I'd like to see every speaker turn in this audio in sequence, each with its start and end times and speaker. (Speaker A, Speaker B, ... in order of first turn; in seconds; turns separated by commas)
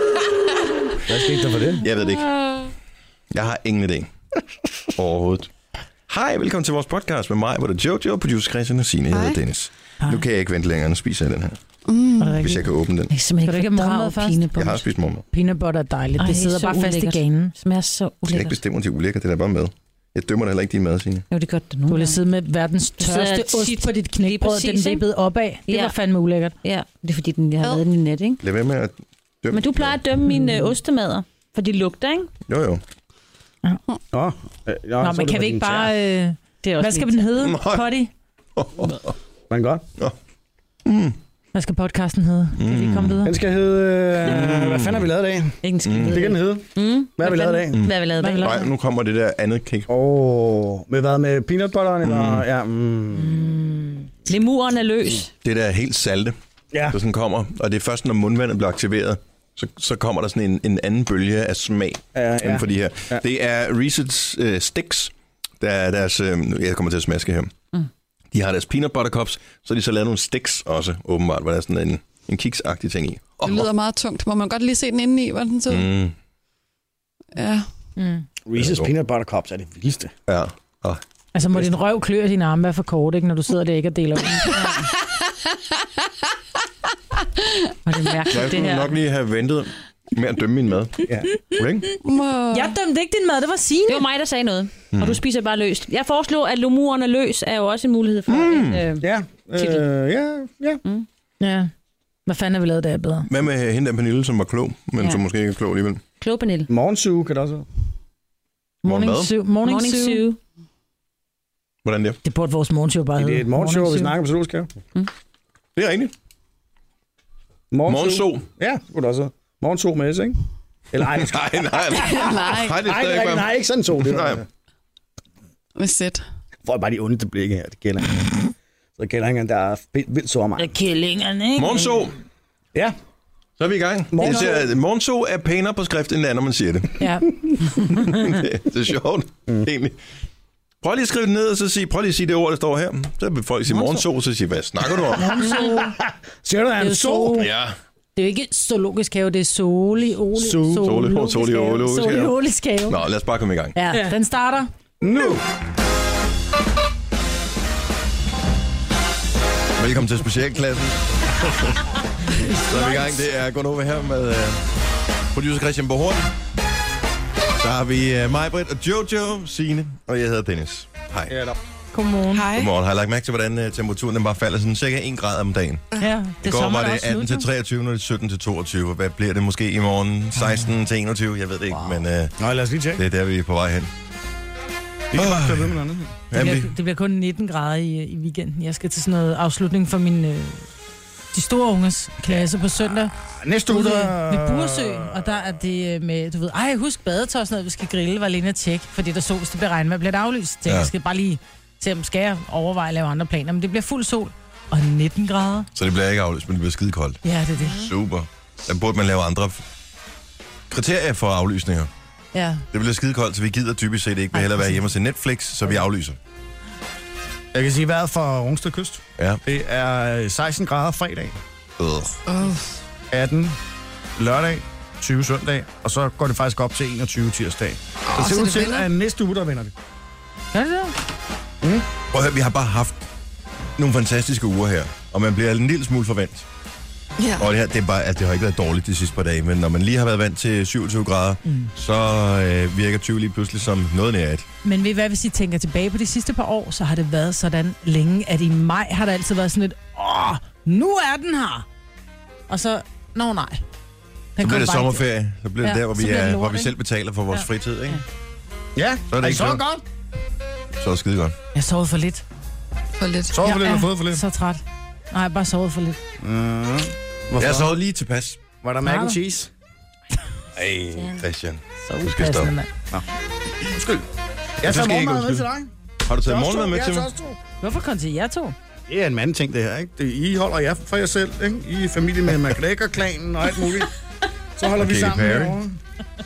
Speaker A: 1.1-1.8, Speaker B: 1.8-2.3, Speaker B: 3.3-4.1, Speaker B: 5.0-5.5, Speaker B: 6.1-11.6, Speaker C: 9.1-9.4, Speaker C: 11.9-12.5, Speaker D: 12.2-12.6, Speaker B: 12.4-13.1, Speaker E: 13.1-14.4, Speaker D: 13.4-17.5, Speaker B: 14.5-15.2, Speaker E: 16.2-18.6, Speaker B: 18.3-21.2, Speaker E: 21.3-22.2, Speaker D: 21.9-26.6, Speaker E: 23.0-25.0, Speaker E: 25.7-25.9, Speaker E: 26.6-28.4, Speaker B: 28.4-30.0, Speaker E: 29.5-32.3, Speaker D: 30.3-30.7, Speaker B: 32.5-32.8, Speaker A: 34.1-35.9, Speaker D: 35.0-38.1, Speaker E: 36.6-37.3, Speaker B: 37.4-37.9, Speaker B: 38.5-39.1, Speaker A: 39.5-39.8, Speaker B: 40.9-41.1, Speaker D: 41.5-43.3, Speaker B: 42.6-43.2, Speaker A: 43.2-47.8, Speaker B: 44.3-45.0, Speaker E: 45.6-48.6, Speaker B: 45.8-46.3, Speaker B: 47.7-49.9, Speaker D: 48.2-48.7, Speaker A: 49.9-53.5, Speaker B: 52.0-52.4, Speaker D: 53.2-54.1, Speaker E: 54.2-55.3, Speaker B: 55.4-56.3, Speaker A: 56.7-57.0, Speaker B: 56.9-67.5, Speaker A: 62.1-63.2, Speaker B: 68.3-73.7, Speaker C: 73.4-75.9, Speaker B: 75.7-76.1, Speaker C: 77.3-77.7, Speaker D: 78.0-78.2, Speaker A: 78.5-80.1, Speaker B: 78.5-78.9, Speaker B: 80.3-81.0, Speaker D: 81.3-84.5, Speaker E: 84.5-84.9, Speaker E: 87.8-88.9, Speaker B: 88.3-91.9, Speaker C: 92.0-92.8, Speaker D: 92.5-94.0, Speaker E: 93.9-99.0, Speaker B: 94.9-95.2, Speaker B: 98.3-98.8, Speaker A: 99.0-100.8, Speaker E: 99.5-99.8, Speaker D: 101.4-101.7, Speaker D: 102.2-103.3, Speaker B: 103.2-106.0, Speaker E: 106.2-106.7, Speaker A: 106.7-107.7, Speaker B: 108.8-109.3, Speaker D: 108.8-110.2, Speaker E: 109.6-110.4, Speaker B: 111.8-112.2, Speaker D: 112.2-114.2, Speaker A: 113.2-114.7, Speaker B: 115.8-116.1, Speaker A: 117.7-120.4, Speaker B: 117.9-118.4, Speaker A: 120.9-121.6, Speaker B: 121.1-123.5, Speaker C: 121.9-122.8, Speaker A: 122.4-124.4, Speaker B: 124.0-124.4, Speaker C: 125.7-126.2, Speaker A: 126.6-128.4, Speaker A: 129.0-130.7, Speaker E: 130.6-131.2, Speaker D: 131.2-131.9, Speaker B: 131.6-132.2, Speaker B: 133.6-137.0, Speaker A: 134.1-134.7, Speaker D: 137.0-137.3, Speaker B: 137.9-140.0, Speaker B: 140.8-145.5, Speaker A: 143.7-144.0, Speaker A: 145.1-147.5, Speaker D: 145.1-145.9, Speaker D: 146.8-147.5, Speaker B: 147.3-147.7, Speaker D: 148.2-153.0, Speaker A: 150.4-150.8, Speaker B: 150.8-152.3, Speaker B: 152.9-153.8, Speaker D: 153.7-154.7, Speaker A: 155.0-155.4, Speaker B: 159.8-164.6, Speaker D: 162.3-163.3, Speaker B: 165.3-166.3, Speaker B: 167.5-171.4, Speaker A: 171.3-171.6, Speaker D: 171.9-172.5, Speaker C: 172.3-172.7, Speaker B: 172.5-175.9, Speaker D: 176.0-177.5, Speaker B: 176.4-182.3, Speaker A: 181.8-183.0, Speaker B: 182.9-183.9, Speaker A: 185.1-186.1, Speaker B: 185.1-185.8, Speaker B: 186.3-186.7, Speaker D: 186.3-190.7, Speaker D: 191.3-193.1, Speaker A: 192.8-195.3, Speaker D: 193.7-205.7, Speaker B: 205.7-207.2, Speaker D: 207.2-207.8, Speaker B: 207.7-209.6, Speaker B: 210.7-211.9, Speaker D: 212.3-212.7, Speaker B: 212.7-216.2, Speaker D: 214.3-214.8, Speaker A: 217.5-221.3, Speaker B: 221.8-222.2, Speaker C: 222.3-222.7, Speaker A: 223.1-223.6, Speaker A: 224.2-229.7, Speaker C: 228.1-228.9, Speaker D: 230.5-230.9, Speaker A: 231.6-231.9, Speaker B: 232.1-233.1, Speaker B: 233.8-236.4, Speaker C: 237.2-237.5, Speaker B: 237.4-244.4, Speaker D: 241.4-241.7, Speaker D: 244.6-251.7, Speaker D: 252.5-253.6, Speaker D: 254.4-255.0, Speaker B: 254.4-258.0, Speaker D: 255.6-256.7, Speaker D: 257.3-258.0, Speaker A: 258.8-259.8, Speaker B: 259.1-259.6, Speaker B: 260.8-261.3, Speaker D: 261.5-262.2, Speaker C: 263.0-263.4, Speaker A: 263.3-264.2, Speaker D: 263.4-266.0, Speaker A: 266.2-267.7, Speaker B: 267.4-268.4, Speaker A: 268.6-269.5, Speaker D: 268.8-269.2, Speaker B: 270.6-272.5, Speaker E: 270.9-271.2, Speaker D: 271.9-272.7, Speaker A: 273.6-274.0, Speaker A: 274.6-275.7, Speaker B: 274.6-275.5, Speaker B: 276.0-277.1, Speaker A: 276.2-277.4, Speaker D: 277.6-278.5, Speaker A: 278.9-283.9, Speaker A: 284.6-285.8, Speaker B: 284.7-285.6